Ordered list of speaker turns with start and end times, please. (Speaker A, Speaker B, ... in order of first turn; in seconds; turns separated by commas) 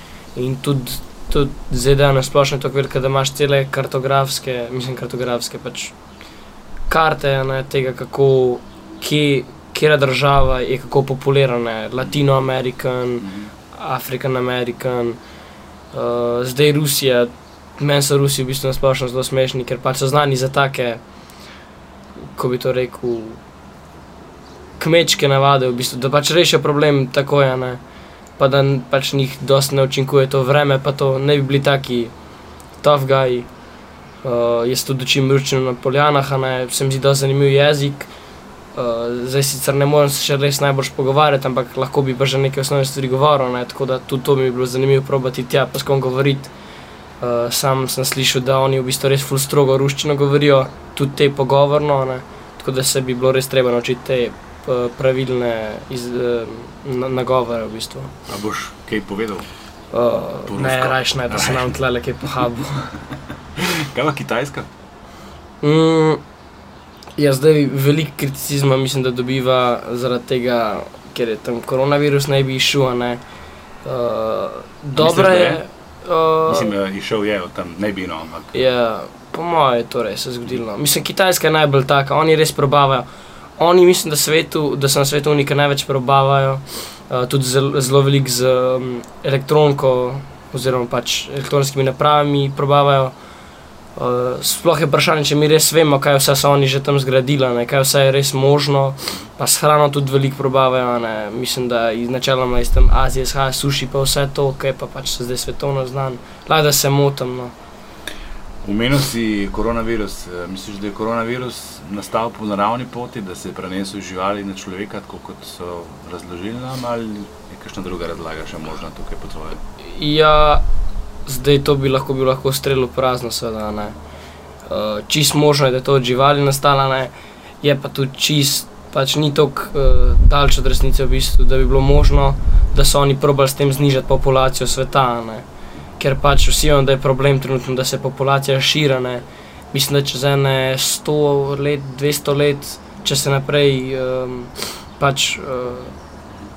Speaker A: 0.3-6.0, Speaker A: 6.9-15.2, Speaker B: 13.2-13.5, Speaker A: 15.9-21.0, Speaker A: 22.3-23.4, Speaker A: 24.8-27.8, Speaker A: 28.4-32.1, Speaker A: 32.8-33.5, Speaker A: 34.2-38.1, Speaker A: 38.7-46.5, Speaker A: 47.2-58.1, Speaker B: 58.3-59.5, Speaker A: 59.9-62.9, Speaker B: 60.5-61.8, Speaker B: 63.6-64.7, Speaker A: 65.6-66.2, Speaker A: 67.2-73.2, Speaker A: 73.8-76.7, Speaker B: 75.0-75.6, Speaker B: 76.5-78.5, Speaker A: 78.5-93.1, Speaker A: 94.0-107.5, Speaker B: 108.6-119.6, Speaker A: 119.8-120.6, Speaker A: 121.2-124.0, Speaker A: 124.7-135.4, Speaker A: 136.0-145.9